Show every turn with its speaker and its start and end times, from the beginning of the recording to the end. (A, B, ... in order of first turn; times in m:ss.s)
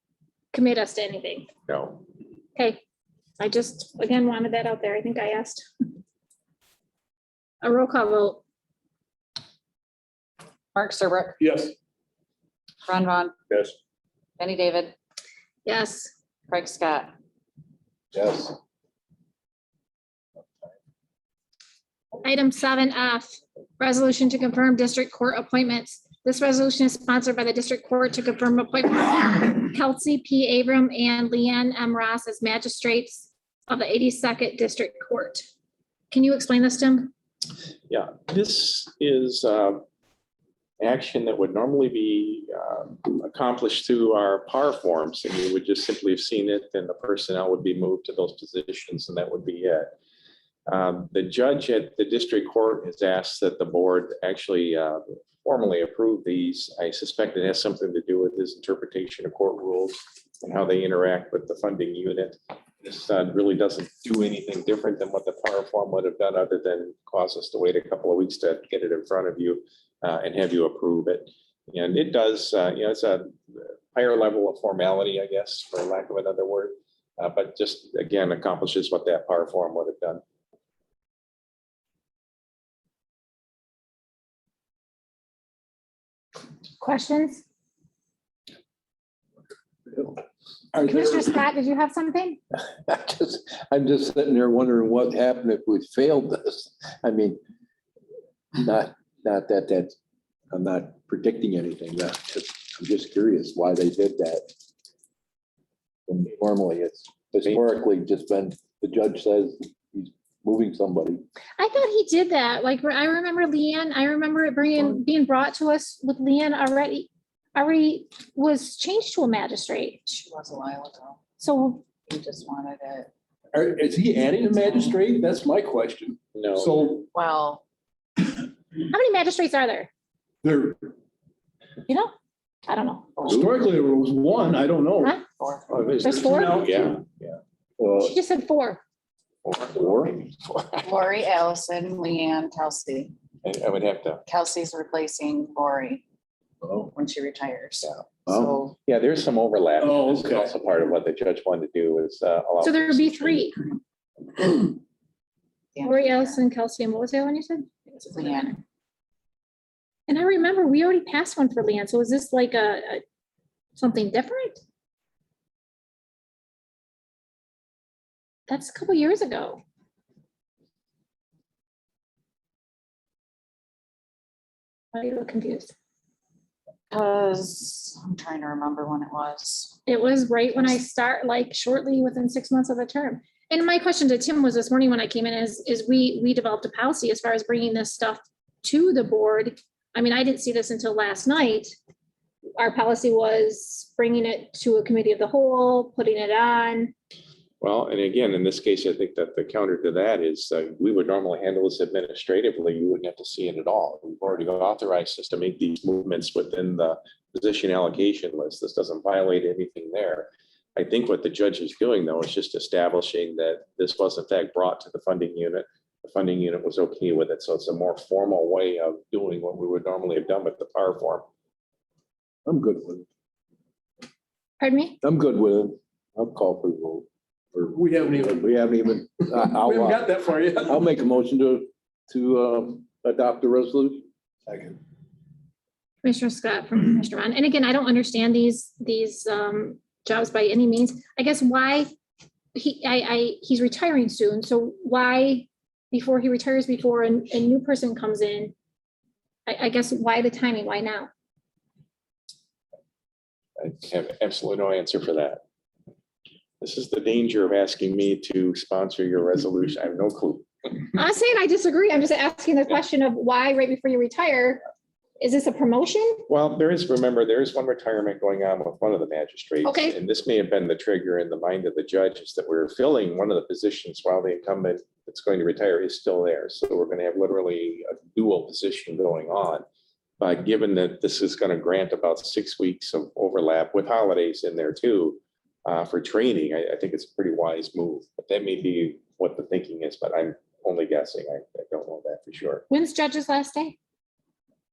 0:00.5-0:01.5 A
0:01.7-0:02.0 B
0:02.6-0:02.8 A
0:03.4-0:05.6 A
0:07.6-0:08.4 A
0:10.7-0:11.4 C
0:11.4-0:11.7 D
0:12.8-0:13.4 C
0:14.4-0:14.9 C
0:15.6-0:16.1 A
0:16.5-0:17.1 C
0:18.1-0:18.5 E
0:22.2-0:35.5 A
0:36.1-0:37.1 A
0:37.9-0:39.8 B
0:40.8-0:49.9 B
0:50.7-1:20.2 B
1:26.8-1:27.4 A
1:30.8-1:32.4 A
1:32.8-1:37.4 E
1:38.5-1:39.9 E
1:40.5-1:44.4 E
1:46.1-1:51.2 E
1:51.6-2:00.0 A
2:00.0-2:01.2 C
2:01.4-2:01.8 A
2:02.0-2:03.1 C
2:03.5-2:07.1 D
2:06.3-2:06.8 B
2:07.1-2:07.6 C
2:08.8-2:09.9 A
2:10.4-2:10.9 D
2:12.7-2:13.3 A
2:13.2-2:13.5 C
2:13.3-2:15.2 D
2:15.2-2:15.7 C
2:15.7-2:17.0 D
2:16.0-2:16.7 A
2:16.4-2:17.4 B
2:17.8-2:18.0 E
2:17.9-2:18.8 A
2:19.4-2:21.1 B
2:20.8-2:23.1 C
2:23.4-2:24.2 B
2:24.3-2:26.0 C
2:26.9-2:28.7 C
2:28.8-2:33.4 B
2:29.8-2:30.5 D
2:32.6-2:33.6 A
2:35.7-2:36.4 C
2:35.8-2:38.6 A
2:38.2-2:38.5 C
2:40.1-2:43.0 A
2:43.8-2:44.6 A
2:48.5-2:49.6 A
2:54.9-2:55.7 A
2:56.9-2:59.8 C
2:59.8-3:11.7 A
3:12.6-3:16.9 A
3:17.6-3:41.2 B
3:42.4-3:43.0 E
3:44.6-3:45.0 A
3:45.0-3:50.1 E
3:47.7-3:48.4 D
3:49.5-3:50.8 D
3:50.6-3:54.1 E
3:54.5-3:54.7 D
3:56.0-4:01.9 A
4:02.5-4:08.5 A
4:09.4-4:11.1 A
4:13.6-4:15.4 B
4:16.6-4:20.7 B
4:20.9-4:24.6 A
4:25.2-4:26.2 A
4:26.3-4:39.6 B
4:29.6-4:30.0 A
4:40.2-4:52.6 B
4:52.7-4:53.8 A